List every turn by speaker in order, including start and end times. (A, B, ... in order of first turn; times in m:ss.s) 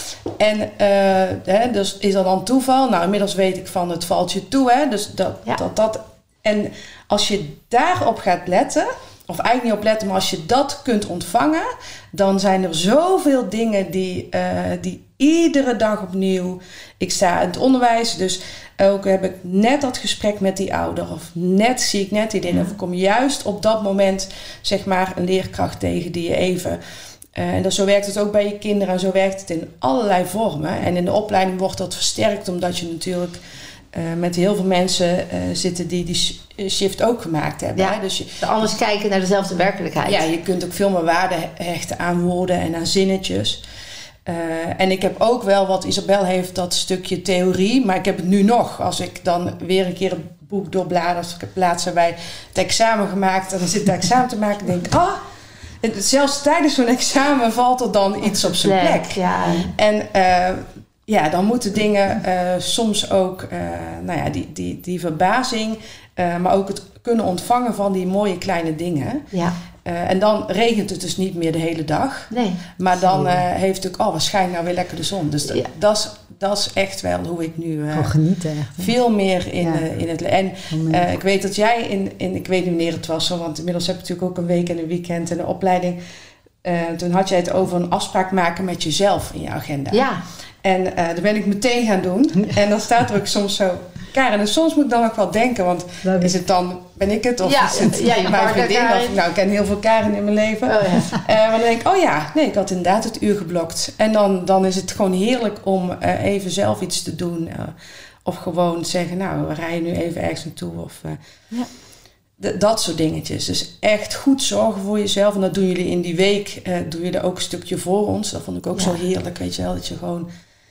0:00.4-0:26.8 A
0:27.4-0:33.4 A
0:33.9-0:38.4 A
0:37.8-0:40.2 B
0:40.0-0:43.6 A
0:44.2-0:55.2 A
0:55.8-1:09.2 A
0:58.3-0:59.7 B
1:09.8-1:18.1 A
1:12.3-1:12.6 B
1:13.0-1:13.4 C
1:17.9-1:18.9 C
1:18.8-1:26.0 A
1:19.6-1:19.8 C
1:20.7-1:21.0 C
1:26.6-1:30.0 A
1:29.9-1:30.2 B
1:30.6-1:51.2 A
1:36.0-1:36.3 C
1:37.4-1:39.2 B
1:40.7-1:41.1 B
1:52.4-2:00.3 A
1:58.7-1:59.0 B